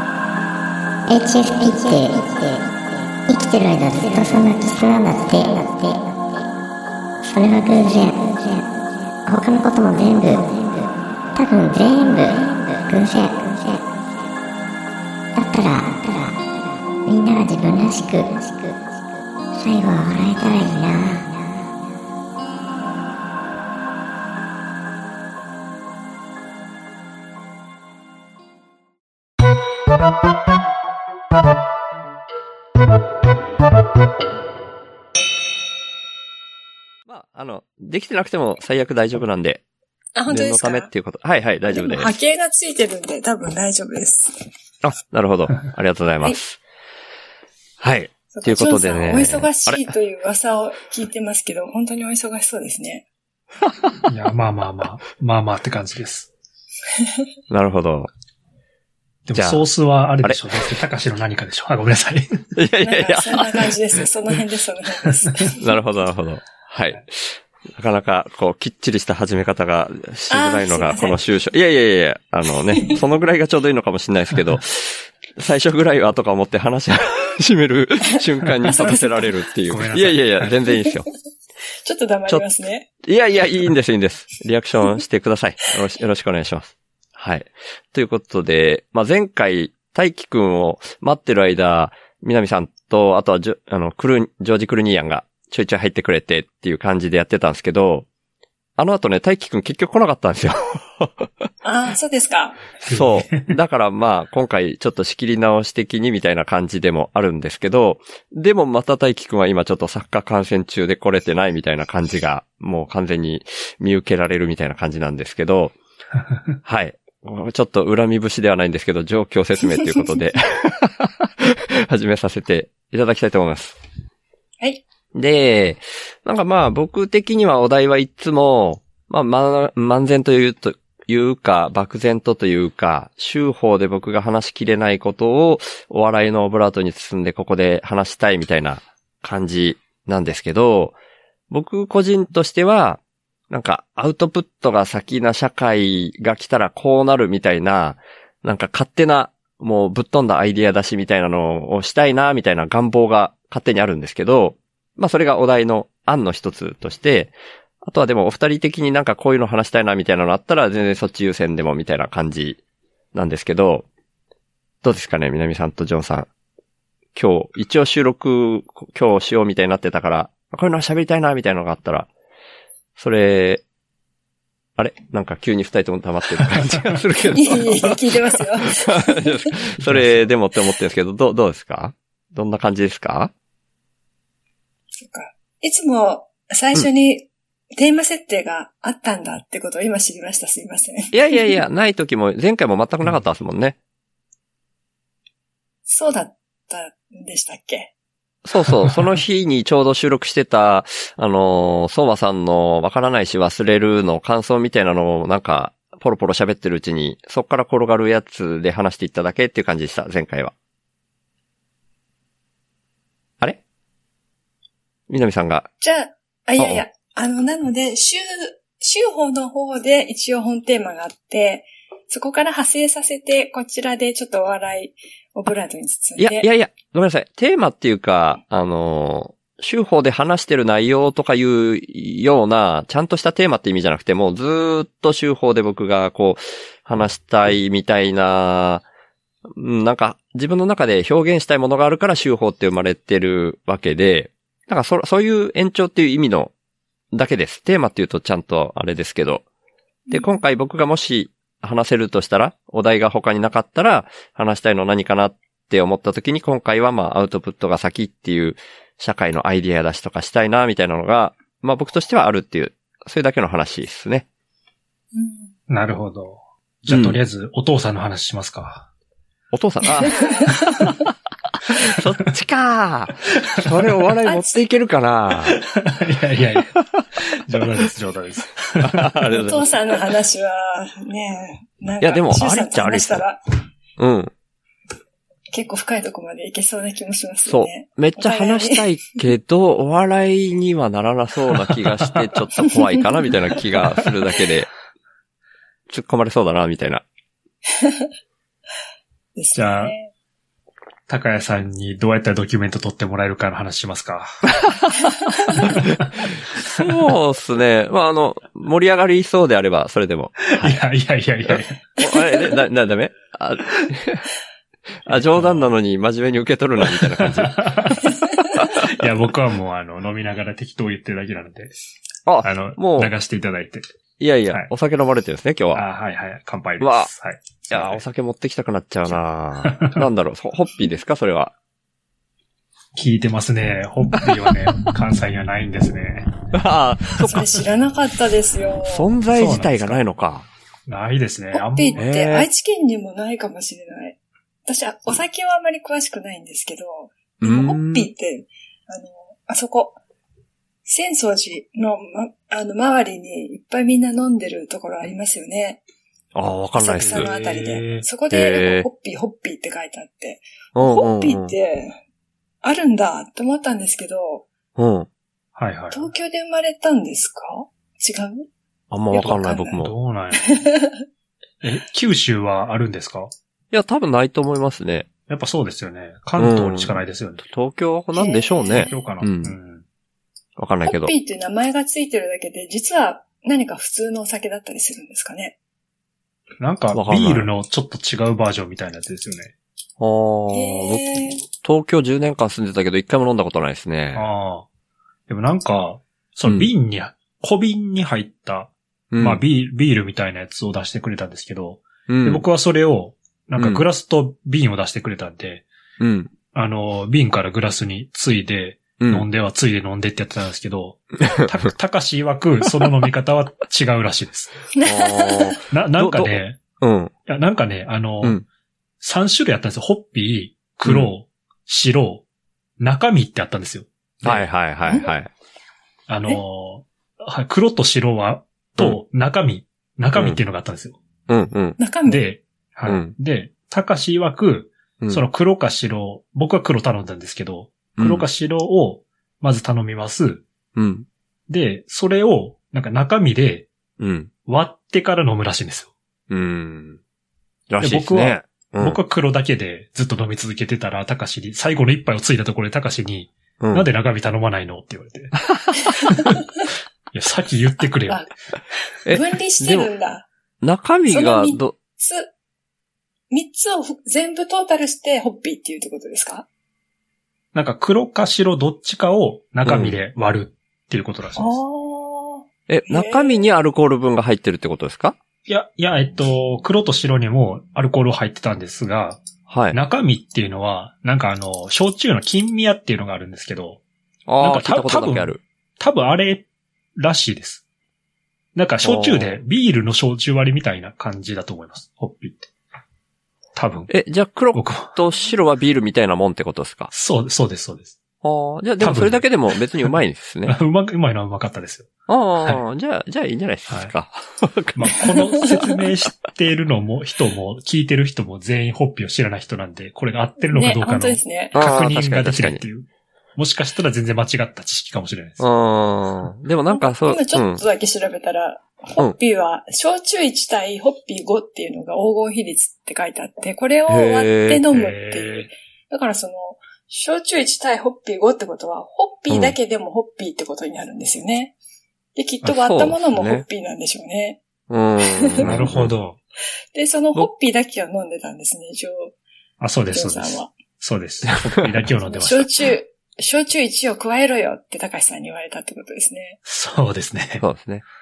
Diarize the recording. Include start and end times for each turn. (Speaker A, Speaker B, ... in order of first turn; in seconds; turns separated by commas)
Speaker A: 1.1-6.5, Speaker A: 7.2-14.2, Speaker A: 15.3-18.9, Speaker A: 19.5-21.6, Speaker B: 37.1-39.6, Speaker C: 40.1-40.9, Speaker B: 40.3-42.1, Speaker C: 41.7-44.3, Speaker B: 44.8-46.6, Speaker B: 47.8-49.8, Speaker C: 48.3-53.0, Speaker D: 54.1-56.3, Speaker B: 57.5-58.1, Speaker D: 59.2-62.5, Speaker B: 59.4-59.6, Speaker B: 60.2-60.7, Speaker B: 62.5-63.7, Speaker C: 62.8-65.6, Speaker B: 65.6-81.1, Speaker C: 70.3-71.2, Speaker C: 78.7-79.2, Speaker D: 79.7-80.5, Speaker C: 81.8-82.9, Speaker B: 83.0-98.0, Speaker B: 98.8-101.3, Speaker C: 101.6-102.6, Speaker D: 102.8-103.6, Speaker B: 102.9-115.7, Speaker B: 116.6-123.8, Speaker B: 125.1-140.9, Speaker B: 141.5-143.0, Speaker B: 143.5-162.6, Speaker B: 163.1-163.8, Speaker B: 164.8-166.3, Speaker B: 167.1-172.1, Speaker B: 173.0-173.6, Speaker B: 174.8-183.3, Speaker C: 177.3-179.5, Speaker D: 179.8-180.3, Speaker C: 184.9-191.6, Speaker B: 191.1-193.8, Speaker C: 195.9-197.9, Speaker B: 198.4-210.5, Speaker D: 198.6-199.2, Speaker B: 215.1-215.7, Speaker C: 215.8-226.5, Speaker B: 216.6-216.8, Speaker B: 226.2-238.8, Speaker B: 239.5-246.5, Speaker B: 247.1-249.4, Speaker B: 250.1-264.2, Speaker C: 265.1-265.5, Speaker D: 265.7-268.9, Speaker B: 266.9-267.2, Speaker B: 269.5-270.2, Speaker C: 270.0-270.9, Speaker B: 271.8-275.6, Speaker D: 273.6-273.9, Speaker C: 274.2-274.6, Speaker D: 275.5-279.1, Speaker B: 278.8-279.7, Speaker C: 279.4-283.4, Speaker B: 282.0-283.2, Speaker B: 284.0-284.3, Speaker C: 285.5-288.9, Speaker B: 287.4-294.7, Speaker B: 295.9-297.0, Speaker C: 299.4-300.1, Speaker D: 299.5-299.9, Speaker D: 301.1-304.3, Speaker C: 305.2-305.6, Speaker D: 305.5-306.9, Speaker B: 306.6-310.8, Speaker D: 310.5-311.8, Speaker B: 311.5-314.3, Speaker B: 315.0-318.0, Speaker D: 315.1-315.7, Speaker D: 316.8-321.7, Speaker B: 322.2-323.1, Speaker D: 322.4-323.9, Speaker B: 324.2-325.8, Speaker D: 325.7-328.0, Speaker B: 326.8-327.1, Speaker B: 327.7-331.5, Speaker D: 329.1-330.1, Speaker D: 332.9-336.3, Speaker B: 334.1-334.6, Speaker B: 336.5-337.6, Speaker C: 337.2-339.1, Speaker B: 338.9-340.5, Speaker D: 339.3-340.0, Speaker D: 340.9-342.1, Speaker C: 341.5-350.0, Speaker B: 342.0-342.5, Speaker B: 347.4-348.1, Speaker C: 350.9-355.8, Speaker B: 356.3-357.3, Speaker C: 356.8-362.0, Speaker D: 356.9-358.1, Speaker B: 358.3-358.9, Speaker B: 360.7-361.5, Speaker C: 362.6-364.4, Speaker B: 364.8-365.1, Speaker D: 365.6-366.1, Speaker C: 365.9-368.4, Speaker B: 368.9-369.9, Speaker C: 369.1-369.8, Speaker D: 369.2-370.7, Speaker C: 370.4-370.9, Speaker D: 371.6-373.3, Speaker B: 373.7-375.1, Speaker D: 375.3-377.5, Speaker B: 376.4-379.5, Speaker C: 378.1-378.9, Speaker D: 378.9-379.8, Speaker B: 380.6-381.1, Speaker C: 380.9-385.5, Speaker D: 386.6-389.5, Speaker B: 386.9-387.5, Speaker B: 390.0-394.3, Speaker C: 390.5-391.4, Speaker D: 394.1-394.6, Speaker D: 395.3-405.7, Speaker B: 399.1-399.4, Speaker B: 402.1-402.4, Speaker B: 403.6-403.8, Speaker B: 406.0-406.3, Speaker D: 406.5-414.6, Speaker B: 409.0-409.3, Speaker C: 414.8-415.6, Speaker B: 414.8-417.1, Speaker D: 415.7-416.6, Speaker D: 417.3-418.4, Speaker D: 419.0-422.2, Speaker B: 420.9-421.1, Speaker D: 422.8-424.5, Speaker B: 424.2-425.3, Speaker D: 426.1-431.0, Speaker B: 430.1-430.4, Speaker B: 431.3-431.8, Speaker C: 431.8-432.2, Speaker D: 432.0-440.4, Speaker B: 432.9-433.1, Speaker B: 438.0-438.3, Speaker B: 440.8-441.1, Speaker D: 441.5-443.7, Speaker B: 444.0-444.3, Speaker D: 444.4-445.9, Speaker B: 446.3-447.0, Speaker B: 447.7-449.0, Speaker D: 447.8-455.4, Speaker B: 453.6-453.9, Speaker D: 457.1-458.2, Speaker C: 459.0-460.3, Speaker B: 459.1-459.9, Speaker B: 460.6-461.7, Speaker C: 461.1-462.3, Speaker C: 463.3-466.4, Speaker D: 467.5-471.6, Speaker B: 469.6-470.0, Speaker C: 471.4-473.5, Speaker B: 472.7-475.1, Speaker D: 475.5-483.8, Speaker B: 479.5-479.8, Speaker B: 484.3-485.4, Speaker D: 484.4-486.4, Speaker D: 487.0-487.6, Speaker D: 488.5-492.5, Speaker B: 488.8-489.4, Speaker D: 493.5-493.9, Speaker B: 493.9-496.9, Speaker D: 494.5-494.9, Speaker D: 496.9-497.9, Speaker B: 498.2-500.6, Speaker D: 498.8-499.2, Speaker D: 500.5-501.9, Speaker B: 502.1-505.0, Speaker D: 503.7-503.9, Speaker D: 504.8-515.4, Speaker C: 510.5-511.6, Speaker B: 511.5-512.6, Speaker B: 515.4-517.6, Speaker C: 516.7-531.5, Speaker B: 523.9-524.6, Speaker D: 524.7-525.5, Speaker B: 529.3-529.5, Speaker C: 532.1-534.4, Speaker B: 532.5-533.4, Speaker B: 534.7-535.9, Speaker D: 535.4-536.2, Speaker C: 536.7-539.1, Speaker D: 539.6-542.5, Speaker C: 539.9-540.5, Speaker C: 542.0-546.4, Speaker D: 546.5-547.4, Speaker B: 547.4-547.8